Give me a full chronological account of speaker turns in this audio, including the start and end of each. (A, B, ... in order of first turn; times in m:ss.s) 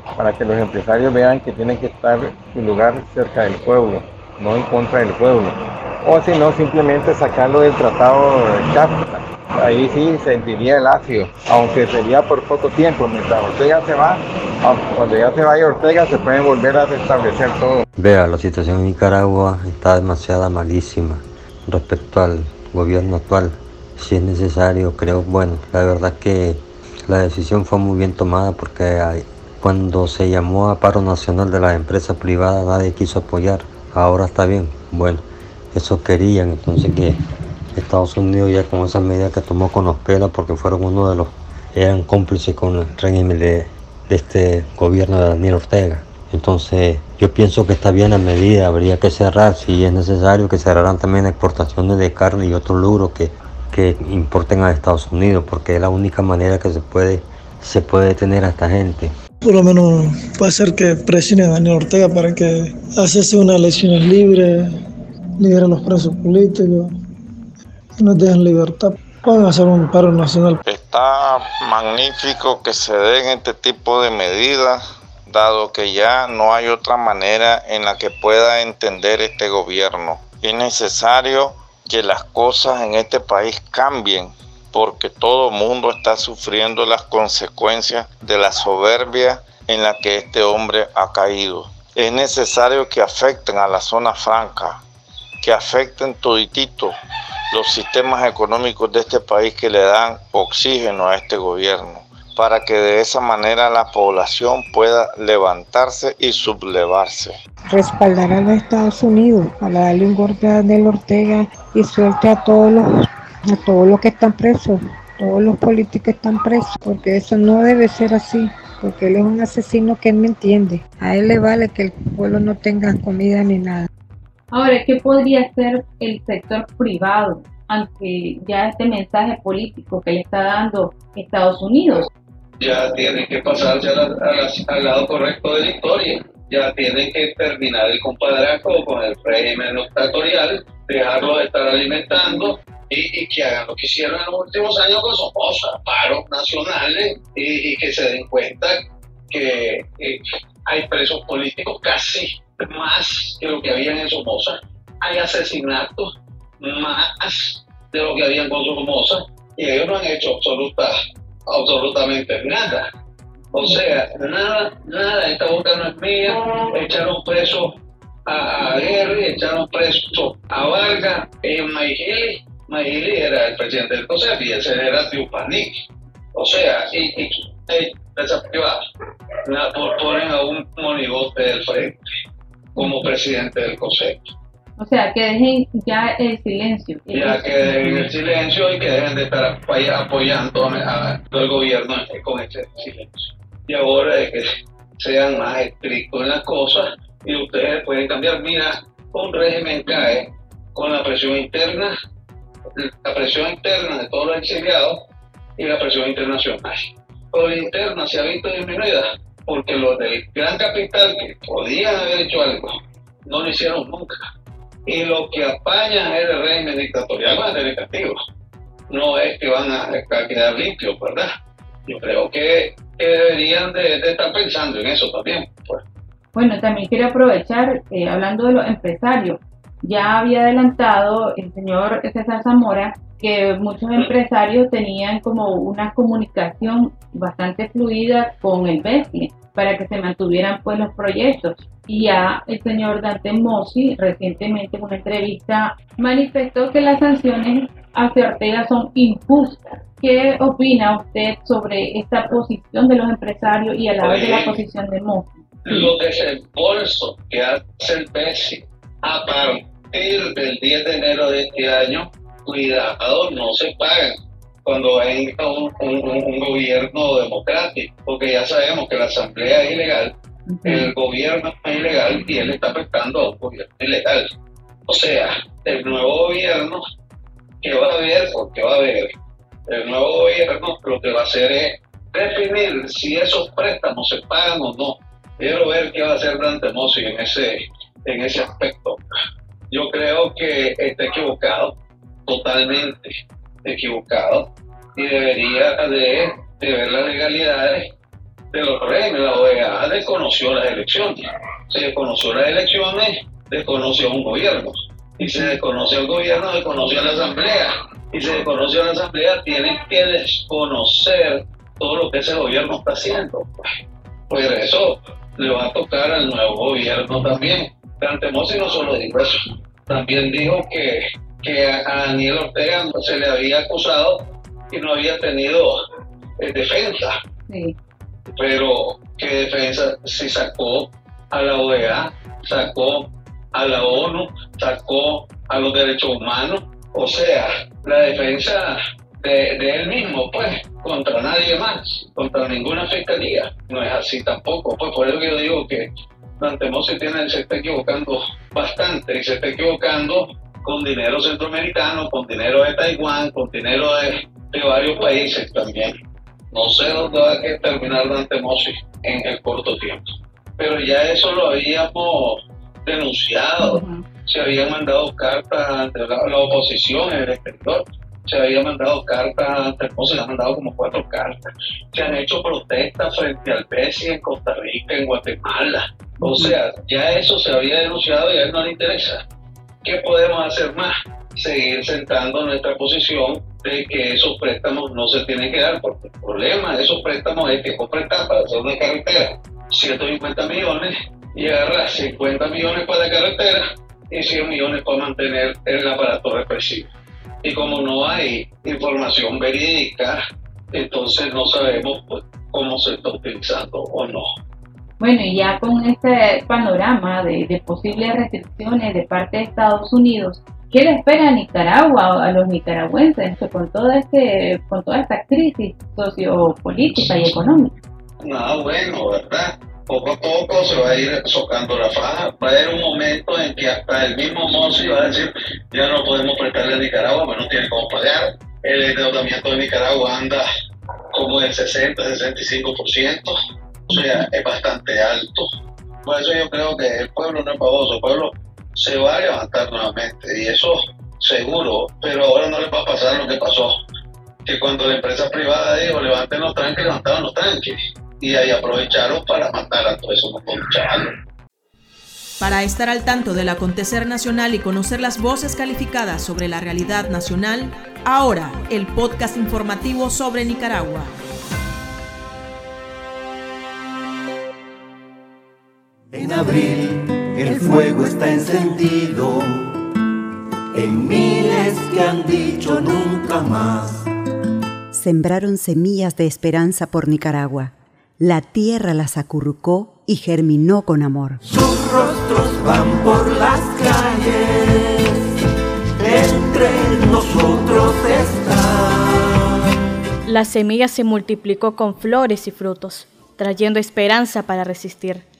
0:00.2-0:17.8 A
0:18.0-0:37.2 B
0:37.7-0:59.1 B
0:59.4-1:04.7 C
1:05.4-1:06.9 C
1:08.0-1:10.6 C
1:10.6-1:34.8 D
1:35.4-1:36.9 D
1:37.5-1:47.4 D
1:47.7-1:52.9 E
1:53.5-2:03.9 E
2:04.5-2:12.1 F
2:12.6-2:28.8 G
2:29.3-2:36.1 G
2:36.6-2:40.9 G
2:41.5-2:42.8 G
2:43.5-2:47.7 G
2:48.2-2:55.7 G
2:56.3-2:58.8 G
2:59.4-3:02.0 G
3:02.8-3:04.3 G
3:04.8-3:08.1 F
3:07.1-3:14.4 G
3:15.0-3:21.9 G
3:22.8-3:25.0 G
3:25.6-3:32.7 G
3:33.2-3:34.2 G
3:34.9-3:38.2 G
3:38.9-3:41.3 G
3:41.9-3:45.8 G
3:46.3-4:15.9 F
4:14.0-4:14.6 G
4:15.6-4:30.1 G
4:30.5-4:30.9 F
4:30.6-4:34.2 G
4:34.9-4:36.8 G
4:37.6-4:39.1 G
4:39.7-4:49.0 G
4:49.7-4:51.7 G
4:52.3-4:53.1 G
4:53.6-4:57.8 G
4:58.5-5:13.6 G
5:05.2-5:05.6 F
5:14.3-5:25.7 G
5:26.4-5:27.1 G
5:27.5-5:27.7 F
5:28.3-5:45.9 G
5:46.4-5:55.9 G
5:56.5-6:00.0 G
6:00.6-6:19.2 G
6:03.6-6:04.0 F
6:16.2-6:16.5 F
6:19.8-6:36.9 G
6:37.4-6:40.2 G
6:40.7-6:44.3 G
6:45.0-6:57.7 F
6:58.2-7:10.4 G
7:11.1-7:13.3 G
7:13.9-7:15.5 G
7:13.9-7:14.2 F
7:16.0-7:23.7 G
7:24.4-7:31.1 G
7:32.4-7:41.1 H
7:46.1-7:49.8 I
7:50.7-7:54.0 I
7:54.9-8:01.4 J
8:01.4-8:04.9 I
8:06.0-8:09.2 I
8:10.2-8:15.2 K